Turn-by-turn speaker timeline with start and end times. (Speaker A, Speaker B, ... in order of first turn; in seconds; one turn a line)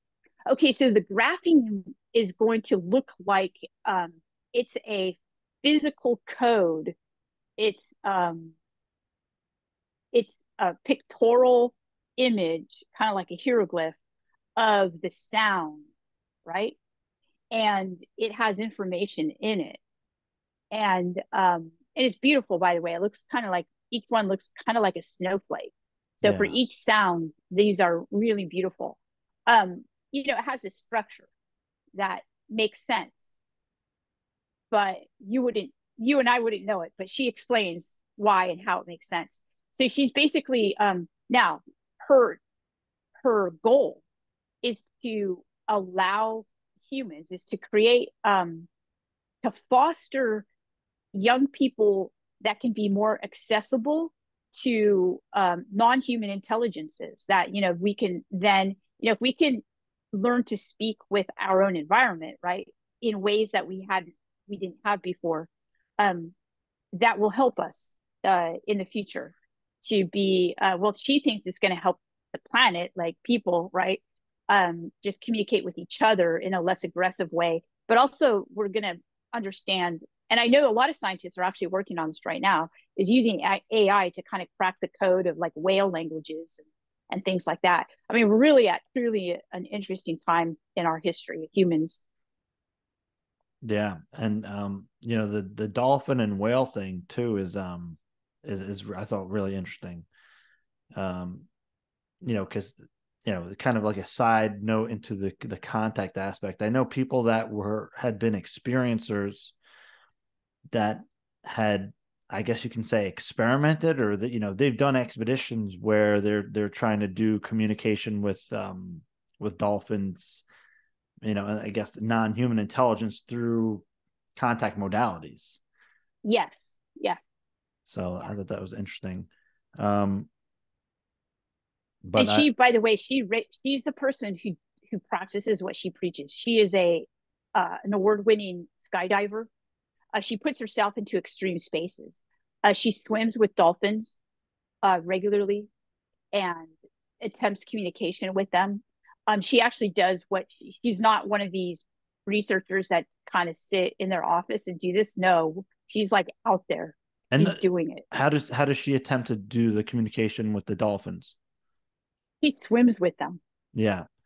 Speaker A: 0.5-6.9
Speaker A: 7.6-8.5
Speaker A: 10.1-14.0
Speaker A: 14.6-15.8
Speaker A: 16.4-16.8
Speaker A: 17.5-19.8
Speaker A: 20.7-31.3
Speaker B: 26.2-26.6
Speaker A: 31.9-33.3
Speaker A: 34.7-42.4
Speaker A: 43.2-44.0
Speaker A: 44.6-48.7
Speaker A: 49.4-50.5
Speaker A: 51.1-66.3
Speaker A: 66.9-92.0
Speaker B: 93.6-100.0
Speaker B: 100.9-101.5
Speaker B: 102.2-109.5
Speaker B: 110.7-120.4
Speaker B: 121.2-123.8
Speaker B: 124.3-125.6
Speaker A: 126.2-127.2
Speaker B: 127.9-130.3
Speaker B: 132.0-132.5
Speaker A: 132.2-139.5
Speaker A: 140.1-144.2
Speaker A: 144.8-145.7
Speaker A: 146.3-158.0
Speaker B: 157.3-161.3
Speaker A: 162.4-163.4
Speaker B: 163.7-164.1